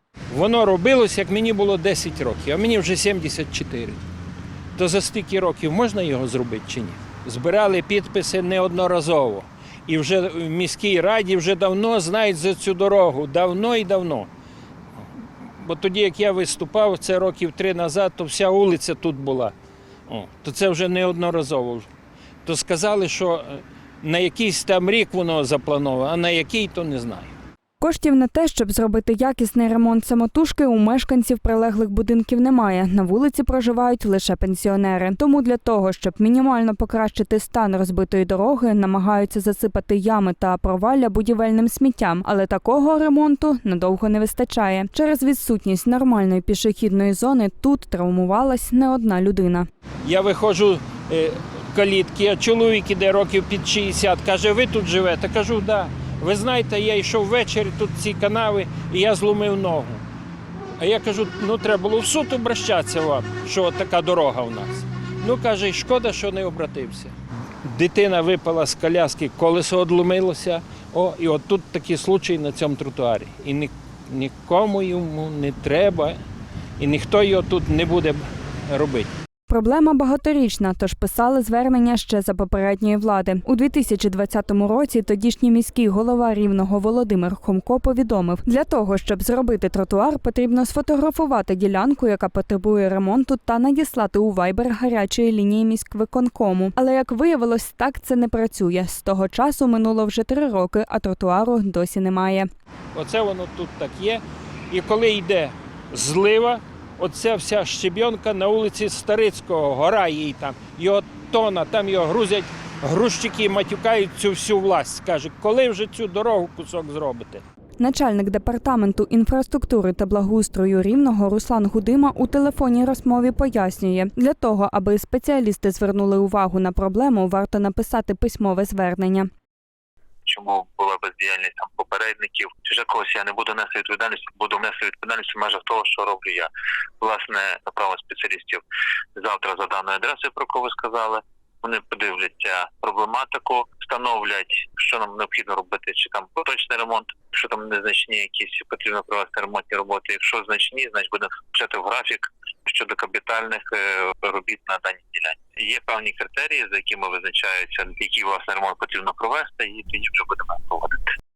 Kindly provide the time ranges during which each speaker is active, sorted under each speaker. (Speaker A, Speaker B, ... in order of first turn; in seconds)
Speaker A: 0.3-4.0, 4.8-14.3, 15.4-19.5, 20.1-21.9, 22.4-27.3, 50.0-60.0, 60.8-76.2, 76.8-79.1, 103.0-117.4
Speaker B: 27.8-49.7, 79.5-102.5, 117.8-129.3
Speaker C: 130.3-138.6, 139.2-161.1